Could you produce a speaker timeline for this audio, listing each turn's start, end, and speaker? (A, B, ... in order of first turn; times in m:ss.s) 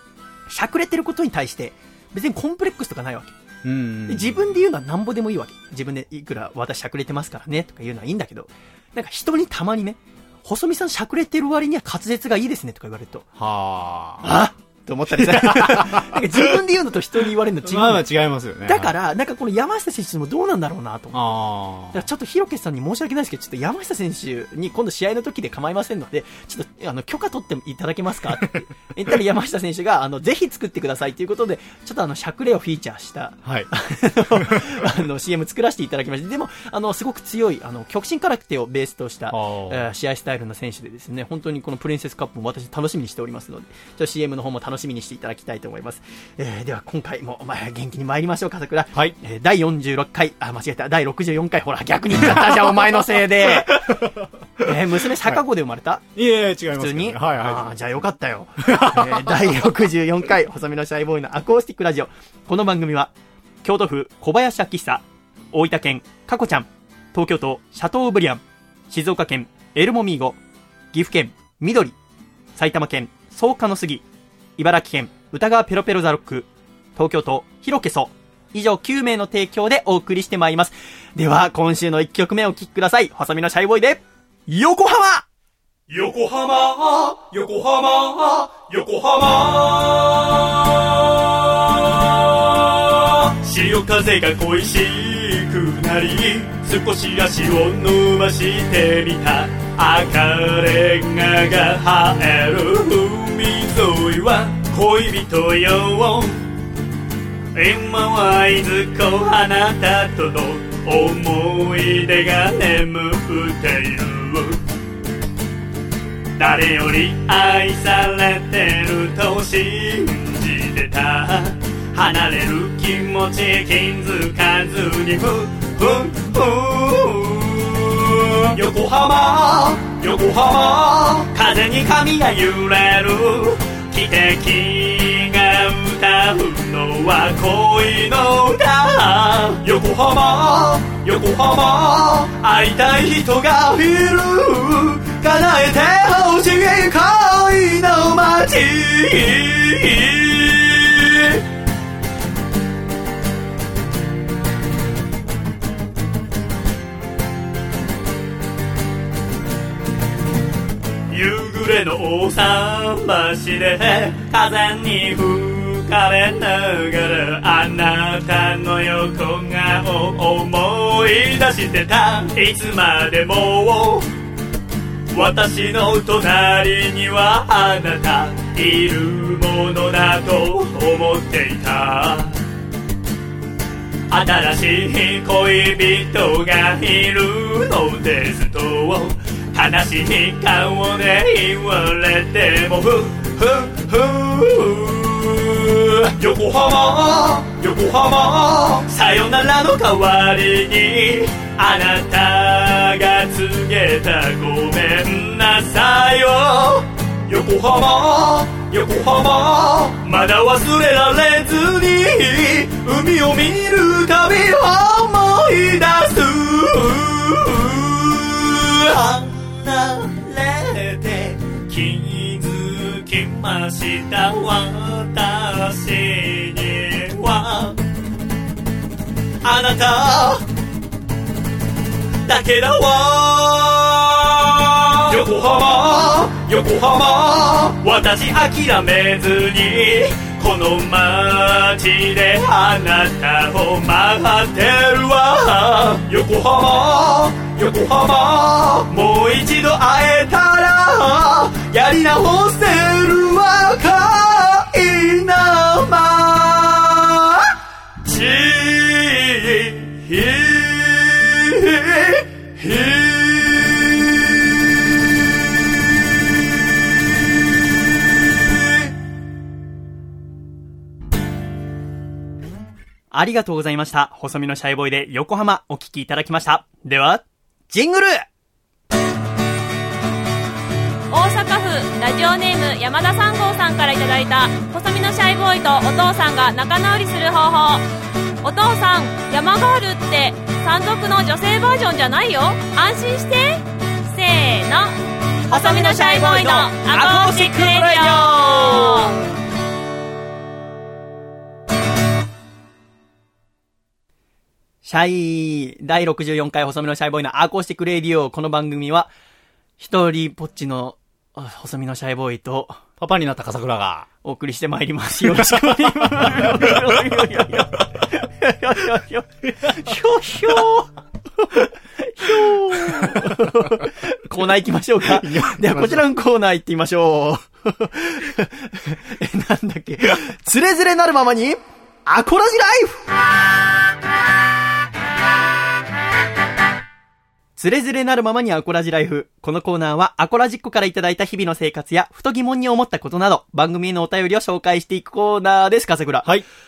0:00.5-0:03.4 A
0:03.6-0:04.5 B
0:04.1-0:13.3 A
0:13.4-0:14.3 B
0:14.2-0:18.1 A
0:15.1-0:16.6 B
0:17.6-0:18.9 B
0:18.6-0:21.2 A
0:21.1-0:22.0 B
0:21.9-0:53.9 A
0:33.4-0:33.7 B
0:34.3-0:34.9 B
0:39.3-0:39.9 B
0:52.2-0:55.4 B
0:54.6-0:56.1 A
0:56.1-0:57.8 B
0:56.7-1:03.1 A
0:58.6-0:59.7 B
1:03.6-1:10.4 A
1:10.9-1:12.0 A
1:12.6-1:14.0 A
1:14.6-1:25.2 A
1:25.9-1:46.4 C
1:47.6-1:54.6 C
1:56.4-2:31.4 C
2:41.1-2:54.1 C
2:55.1-3:02.4 C
3:04.1-3:47.8 C
3:49.4-3:50.4 C
3:52.2-4:17.5 C
4:18.0-4:23.9 C
4:33.1-4:38.2 A
4:41.1-4:47.8 D
4:48.4-4:55.0 D
4:55.5-4:59.1 D
4:55.5-4:59.2 A
5:04.8-5:09.1 A
5:09.8-5:12.8 A
5:13.0-5:14.1 B
5:14.2-5:20.9 A
5:15.2-5:17.0 B
5:21.4-5:33.1 A
5:22.2-5:23.5 B
5:25.0-5:26.0 B
5:37.6-5:46.3 A